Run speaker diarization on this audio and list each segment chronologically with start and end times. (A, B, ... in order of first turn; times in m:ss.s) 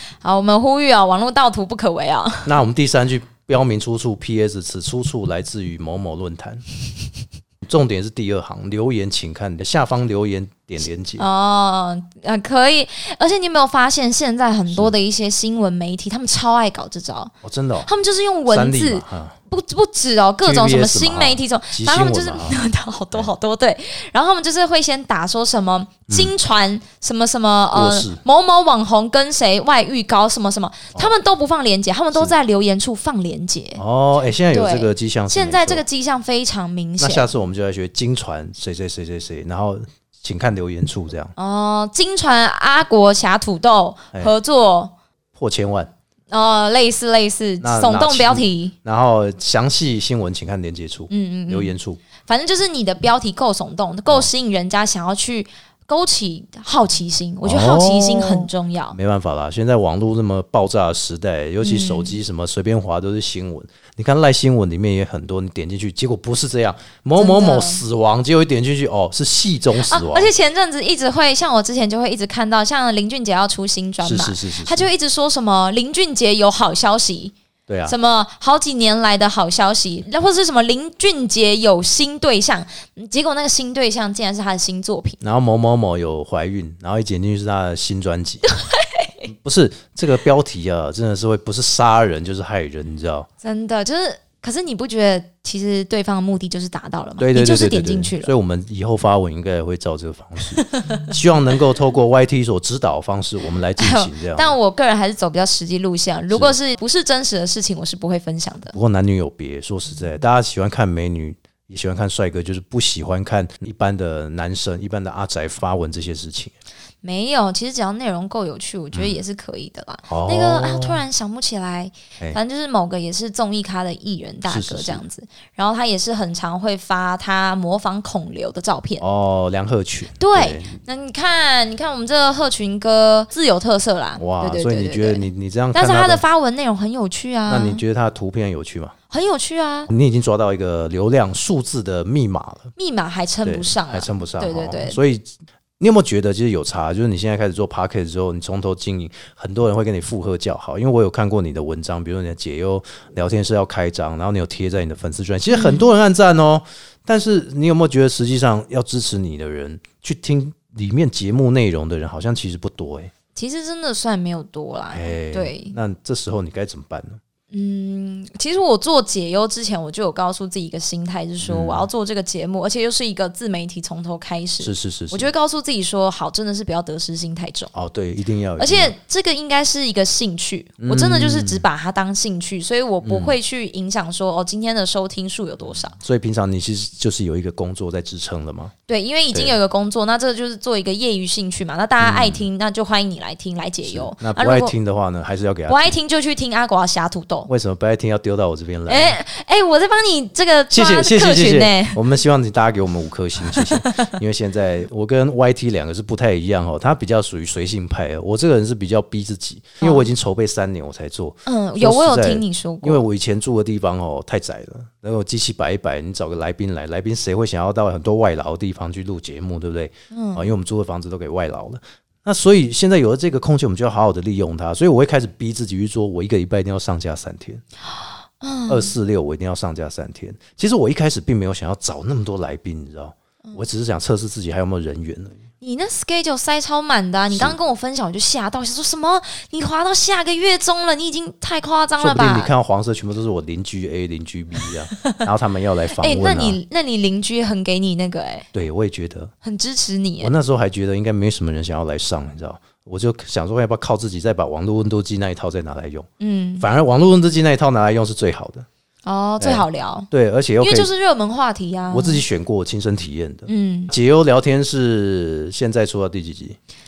0:00.2-0:02.6 A
0:02.4-0:06.6 B
0:07.6-0:11.2 B
0:11.2-0:17.3 A
0:17.4-0:17.9 B
0:17.8-0:33.8 A
0:18.5-0:19.4 B
0:20.4-0:22.6 B
0:27.7-0:28.2 B
0:33.8-0:35.8 B
0:34.5-0:37.3 A
0:37.0-0:41.3 B
0:41.4-0:44.9 A
0:45.4-0:45.9 B
0:46.3-0:48.7 A
0:47.6-0:52.0 B
0:51.1-0:51.7 A
0:52.3-0:59.0 A
0:57.4-1:10.3 B
1:01.6-1:02.2 A
1:07.2-1:07.8 A
1:09.7-1:17.3 A
1:14.0-1:14.9 B
1:17.7-1:18.0 B
1:17.8-1:25.2 A
1:25.2-1:28.4 B
1:28.4-1:29.3 A
1:29.2-1:33.3 B
1:33.4-1:38.3 A
1:37.2-1:44.5 B
1:40.5-1:41.1 A
1:43.8-1:48.8 A
1:46.3-1:46.6 B
1:48.7-1:56.5 B
1:57.0-2:09.0 A
1:58.9-1:59.2 B
2:00.1-2:01.0 B
2:04.4-2:05.0 B
2:09.0-2:10.7 B
2:10.2-2:17.8 A
2:14.2-2:16.2 B
2:17.5-2:18.9 B
2:19.1-2:19.9 A
2:19.9-2:22.7 B
2:22.8-2:25.0 A
2:23.4-2:43.1 B
2:35.5-2:35.9 A
2:43.3-2:45.8 A
2:44.9-2:47.2 B
2:47.5-2:57.7 A
2:51.4-2:51.9 B
2:54.6-2:55.3 B
2:57.7-2:58.9 B
2:58.6-3:06.0 A
3:00.8-3:01.6 B
3:03.0-3:03.3 B
3:06.0-3:08.7 B
3:08.9-3:14.7 A
3:12.0-3:12.4 B
3:13.8-3:16.0 B
3:15.7-3:17.5 A
3:17.5-3:19.2 B
3:18.9-3:22.0 A
3:20.7-3:47.6 B
3:23.5-3:24.1 A
3:29.8-3:30.1 A
3:31.4-3:33.0 A
3:40.1-3:40.5 A
3:48.4-3:48.9 A
3:48.7-3:55.4 B
3:55.6-4:02.5 A
4:02.0-4:06.6 B
4:06.0-4:08.4 A
4:08.5-4:09.3 B
4:09.4-4:10.3 A
4:10.2-4:16.1 B
4:16.2-4:16.7 A
4:16.6-4:18.6 B
4:19.0-4:20.1 A
4:19.4-4:20.9 B
4:20.6-4:22.2 A
4:21.9-4:26.6 B
4:23.5-4:23.9 A